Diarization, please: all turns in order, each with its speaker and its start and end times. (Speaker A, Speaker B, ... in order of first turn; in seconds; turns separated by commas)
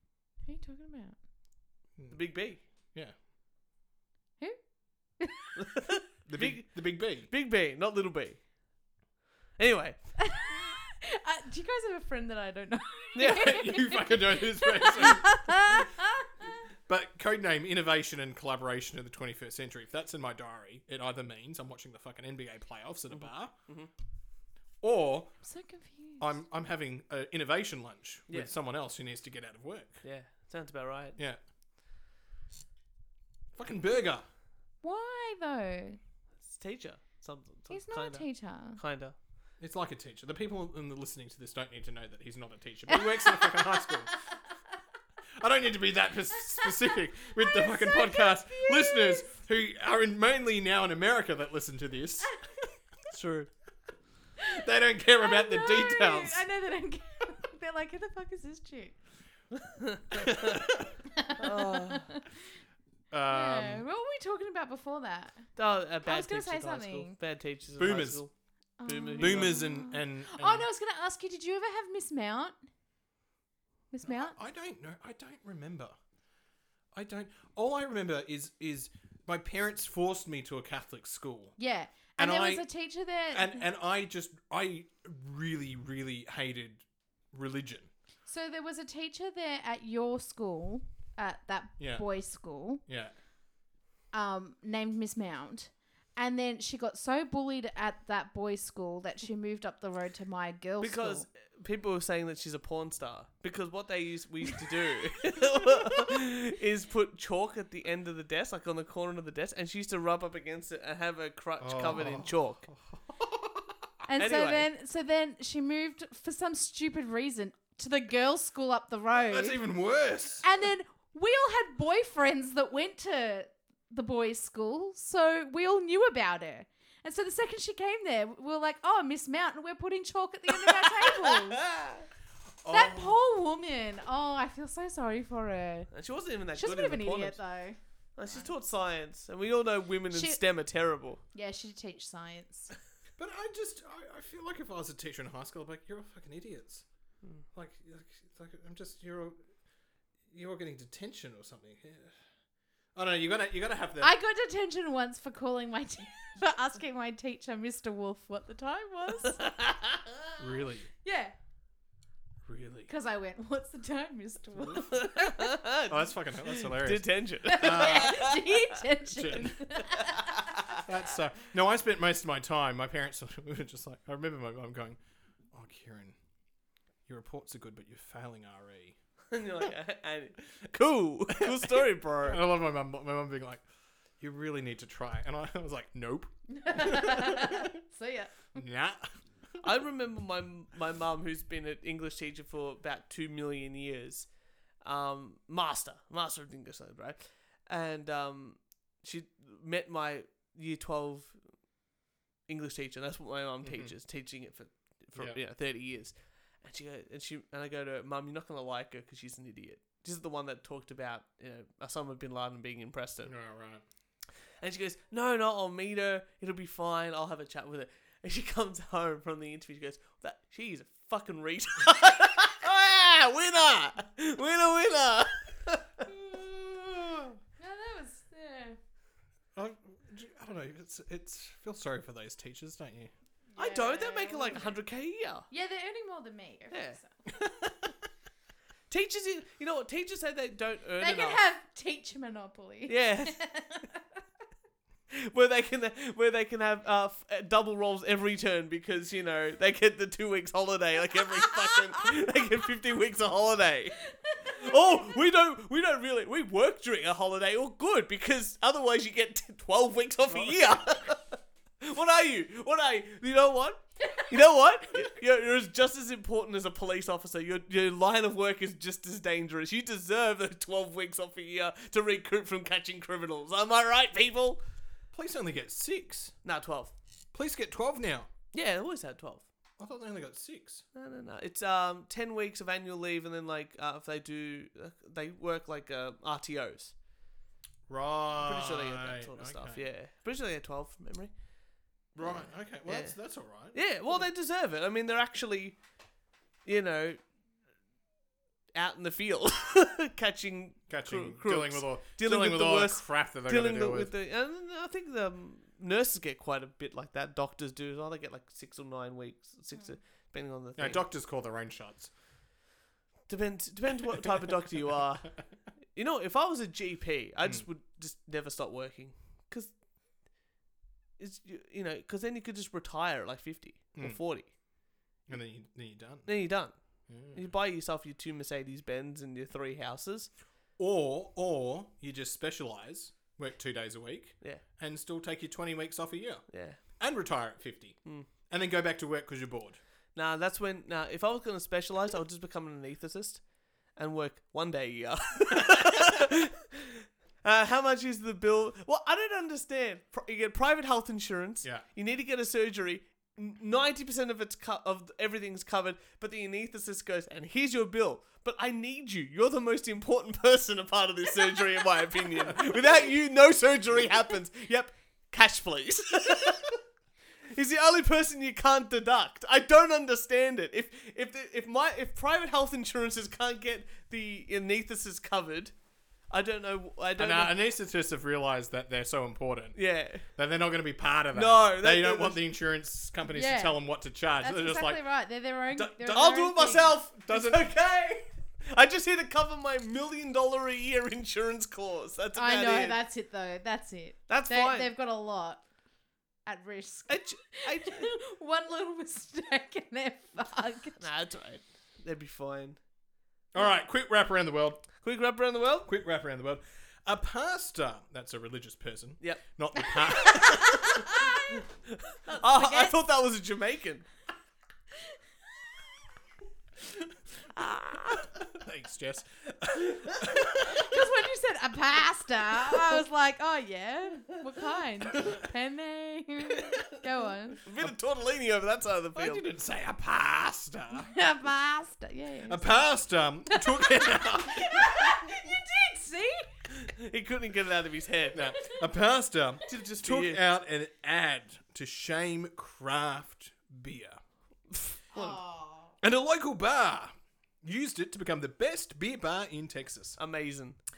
Speaker A: 0.5-1.2, Speaker B: 2.0-3.1, Speaker C: 2.1-2.6, Speaker A: 5.2-5.5, Speaker C: 5.6-8.4, Speaker B: 6.3-7.3, Speaker C: 9.6-10.2, Speaker A: 10.2-16.3, Speaker C: 13.2-13.6, Speaker B: 13.2-15.8, Speaker B: 16.9-23.6, Speaker C: 23.1-23.9, Speaker B: 24.8-25.4, Speaker A: 25.4-26.3, Speaker B: 26.2-30.0, Speaker C: 30.0-31.2, Speaker B: 33.5-34.3, Speaker A: 34.8-36.0, Speaker C: 36.5-39.2, Speaker A: 37.7-38.8, Speaker B: 39.6-44.2, Speaker A: 42.9-43.9, Speaker B: 45.4-52.4, Speaker A: 47.3-49.3, Speaker C: 53.1-53.5, Speaker B: 54.5-56.5, Speaker A: 55.2-59.0, Speaker C: 59.6-60.6, Speaker B: 60.2-60.9, Speaker A: 61.1-62.2, Speaker C: 61.4-62.1, Speaker B: 63.1-63.8, Speaker A: 63.3-65.5, Speaker C: 65.6-68.3, Speaker A: 66.0-67.2, Speaker B: 67.8-68.2, Speaker A: 68.8-72.6, Speaker C: 68.9-69.6, Speaker B: 69.2-70.7, Speaker A: 73.9-74.4, Speaker B: 74.0-76.0, Speaker B: 76.9-81.6, Speaker A: 81.6-83.7, Speaker B: 82.2-82.7, Speaker B: 83.3-87.9, Speaker A: 88.3-92.8, Speaker B: 91.8-92.1, Speaker B: 92.8-93.2, Speaker A: 94.1-101.3, Speaker C: 100.8-112.6, Speaker B: 111.6-113.9, Speaker A: 114.1-119.6, Speaker C: 114.2-114.7, Speaker B: 119.1-120.5, Speaker A: 120.4-131.6, Speaker C: 130.9-132.1, Speaker B: 132.6-133.2, Speaker A: 132.7-135.9, Speaker C: 135.9-137.4, Speaker A: 136.6-138.5, Speaker C: 138.2-141.2, Speaker A: 140.1-140.4, Speaker A: 141.3-142.7, Speaker B: 143.2-146.8, Speaker B: 147.5-149.4, Speaker B: 150.3-152.2, Speaker B: 152.9-154.2, Speaker A: 154.0-159.4, Speaker C: 159.3-160.1, Speaker B: 160.4-160.9, Speaker A: 161.0-161.3, Speaker B: 162.4-162.9, Speaker A: 162.9-165.4, Speaker C: 164.9-168.4, Speaker B: 165.9-168.3, Speaker A: 167.5-170.5, Speaker B: 169.1-169.6, Speaker B: 170.8-175.0, Speaker B: 175.5-176.2, Speaker B: 177.1-179.0, Speaker C: 179.3-182.4, Speaker B: 181.4-183.6, Speaker B: 184.2-187.7, Speaker A: 186.5-188.6, Speaker B: 188.6-189.1, Speaker C: 189.6-194.3, Speaker C: 194.8-201.6, Speaker C: 202.5-213.3, Speaker B: 203.6-203.9, Speaker B: 213.2-213.8, Speaker C: 214.6-226.1, Speaker B: 226.1-227.2, Speaker A: 227.6-228.8, Speaker B: 229.6-233.1, Speaker A: 233.6-234.8, Speaker C: 233.6-235.5, Speaker A: 235.5-237.1, Speaker C: 236.7-237.0, Speaker C: 238.9-241.4, Speaker A: 241.0-244.0, Speaker C: 242.9-243.4, Speaker C: 245.1-254.0, Speaker A: 251.3-251.8, Speaker A: 254.2-254.9, Speaker C: 254.5-274.6, Speaker B: 260.3-261.0, Speaker B: 275.1-276.4, Speaker C: 276.4-276.9, Speaker B: 277.3-278.3, Speaker C: 278.5-279.5, Speaker B: 279.8-280.9, Speaker C: 280.9-286.9, Speaker B: 287.9-289.9, Speaker C: 288.4-291.3, Speaker B: 292.2-294.3, Speaker C: 292.2-293.2, Speaker C: 293.7-295.8, Speaker C: 296.6-297.2, Speaker C: 298.8-311.0, Speaker B: 300.9-304.1, Speaker B: 310.8-312.1, Speaker C: 313.3-315.3, Speaker C: 315.9-319.7, Speaker C: 321.2-324.5, Speaker B: 324.0-324.2, Speaker B: 325.3-326.3, Speaker C: 326.3-330.3, Speaker B: 327.1-327.5, Speaker B: 330.8-336.5, Speaker C: 336.5-336.8, Speaker B: 337.0-339.8, Speaker C: 340.1-366.8, Speaker C: 367.5-375.7, Speaker C: 376.3-377.6, Speaker B: 377.2-379.8, Speaker C: 379.8-380.3, Speaker B: 380.4-385.1, Speaker C: 381.3-382.4, Speaker A: 383.3-383.8, Speaker A: 384.4-386.9, Speaker B: 385.7-387.7, Speaker C: 386.1-393.0, Speaker A: 392.4-395.6, Speaker C: 394.3-394.9, Speaker A: 396.5-401.0, Speaker C: 397.1-398.1, Speaker C: 401.0-402.8, Speaker B: 403.5-404.9, Speaker C: 405.0-405.9, Speaker B: 405.8-411.0, Speaker A: 410.2-411.6, Speaker C: 410.4-410.9, Speaker C: 411.9-414.1, Speaker A: 412.4-413.0, Speaker C: 417.6-418.3, Speaker B: 418.4-421.0, Speaker A: 420.7-427.6, Speaker C: 427.6-429.5, Speaker B: 429.1-431.1, Speaker A: 431.0-432.9, Speaker B: 432.5-435.1, Speaker A: 433.5-436.6, Speaker C: 436.8-438.4, Speaker B: 438.3-444.2, Speaker C: 439.7-440.4, Speaker C: 444.8-445.3, Speaker A: 445.1-445.9, Speaker B: 446.0-450.2, Speaker C: 450.2-450.8